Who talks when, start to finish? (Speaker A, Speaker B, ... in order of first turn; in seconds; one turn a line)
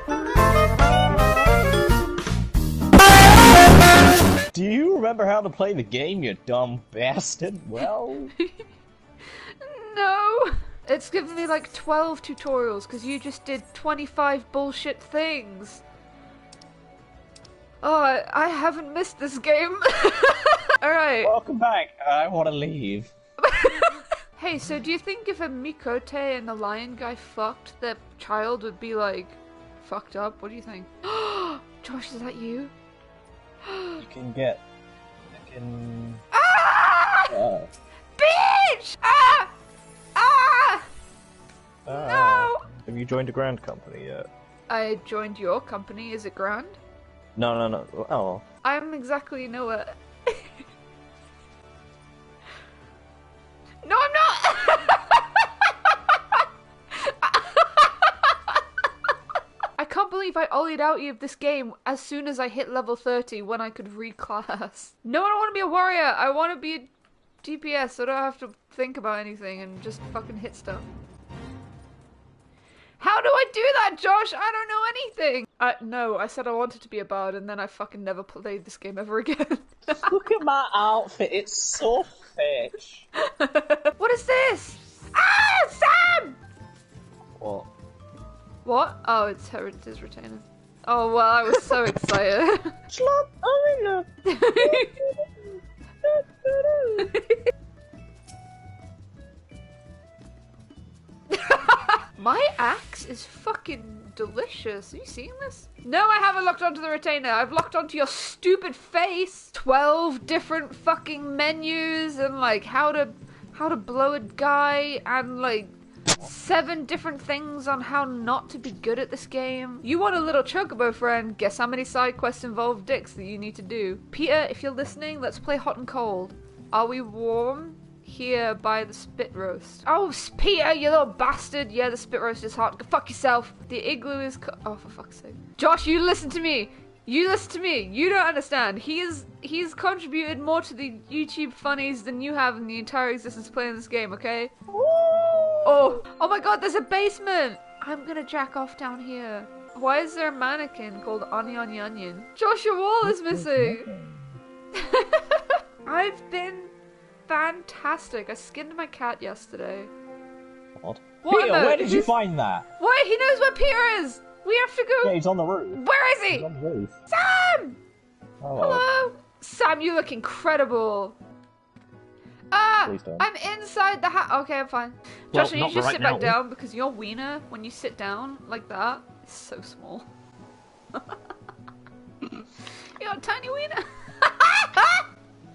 Speaker A: 4.5-8.3
Speaker B: 9.6-15.8
Speaker B: 17.8-21.3
Speaker A: 21.2-23.1
Speaker B: 23.4-32.7
Speaker B: 33.6-34.0
Speaker A: 34.0-34.6
Speaker A: 35.3-36.2
Speaker B: 36.3-37.4
Speaker A: 37.3-37.7
Speaker B: 38.2-39.5
Speaker B: 40.1-40.9
Speaker A: 41.9-44.3
Speaker B: 41.9-42.6
Speaker B: 44.7-46.8
Speaker A: 47.4-48.4
Speaker B: 48.6-50.6
Speaker B: 53.8-58.6
Speaker B: 59.8-66.9
Speaker B: 67.4-70.8
Speaker B: 73.0-80.1
Speaker A: 80.0-83.0
Speaker B: 83.2-86.4
Speaker A: 87.4-87.7
Speaker B: 88.6-92.7
Speaker A: 92.9-95.3
Speaker B: 94.2-95.0
Speaker A: 96.0-97.1
Speaker B: 97.0-97.5
Speaker B: 101.3-144.5
Speaker A: 144.7-146.0
Speaker B: 145.6-153.9
Speaker A: 153.0-154.4
Speaker B: 154.8-156.7
Speaker B: 157.3-159.9
Speaker A: 160.8-162.7
Speaker B: 161.2-162.1
Speaker B: 162.8-165.2
Speaker A: 165.0-166.9
Speaker B: 165.7-166.5
Speaker B: 167.1-167.8
Speaker A: 168.4-168.8
Speaker B: 168.6-171.2
Speaker B: 172.5-180.0
Speaker A: 172.8-173.2
Speaker A: 175.3-176.4
Speaker B: 182.9-185.0